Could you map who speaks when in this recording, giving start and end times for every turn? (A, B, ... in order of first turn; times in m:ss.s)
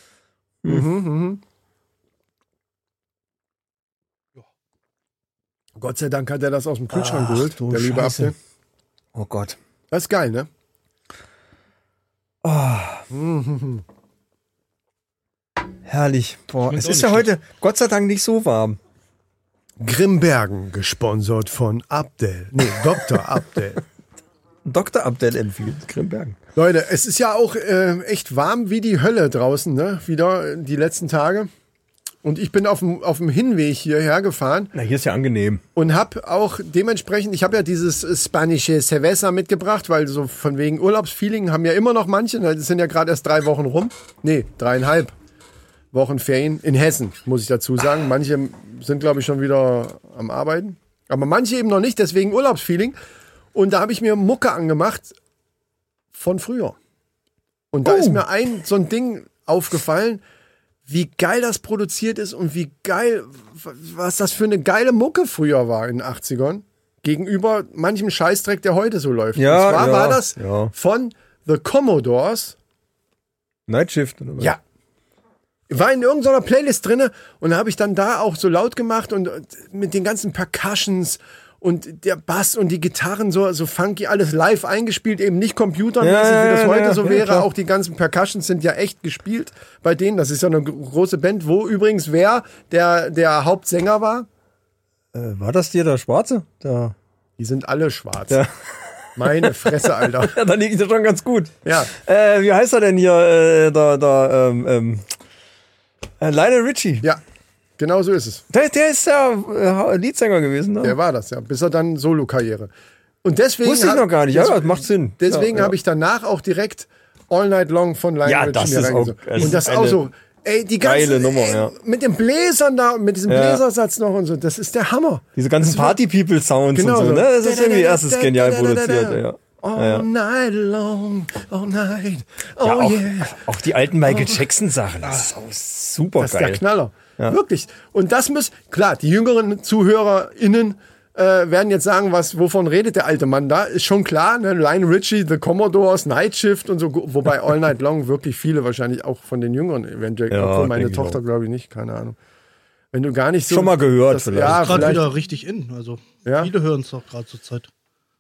0:00.6-0:01.4 A
0:05.8-0:08.3 A
0:06.9-0:08.3 B
0:09.1-0:09.6 B
0:09.9-0:10.5 A
0:12.4-0:13.0 B
0:13.1-0:13.8 A
0:15.8-0:18.8 B
0:16.7-0:17.3 C
0:19.8-0:23.8 A
0:24.6-0:26.4 B
0:26.6-0:31.5 A
0:32.2-0:34.7 A
0:34.7-0:35.6 B
0:35.8-0:45.1 A
0:45.9-0:53.0 A
0:53.5-0:55.1 A
0:56.1-0:56.8 A
0:57.7-1:00.2 A
0:57.8-0:58.2 B
1:00.9-1:12.6 A
1:09.3-1:10.7 B
1:13.7-1:14.5 B
1:15.7-1:34.3 A
1:26.0-1:27.5 B
1:35.1-1:36.9 B
1:37.4-1:38.4 A
1:38.3-1:45.0 B
1:39.2-1:40.4 A
1:41.6-1:41.9 A
1:46.2-1:47.1 B
1:47.8-1:48.4 A
1:48.5-1:51.0 B
1:50.8-1:52.7 A
1:53.2-2:06.0 A
1:53.6-1:55.7 B
1:58.2-2:00.0 B
2:00.8-2:01.7 B
2:03.3-2:03.6 B
2:05.4-2:10.1 B
2:06.7-2:13.4 A
2:12.6-2:16.6 B
2:16.2-2:32.2 A
2:30.3-2:31.2 B
2:32.9-2:35.0 A
2:33.5-2:35.0 B
2:34.4-2:37.7 C
2:36.2-2:36.5 A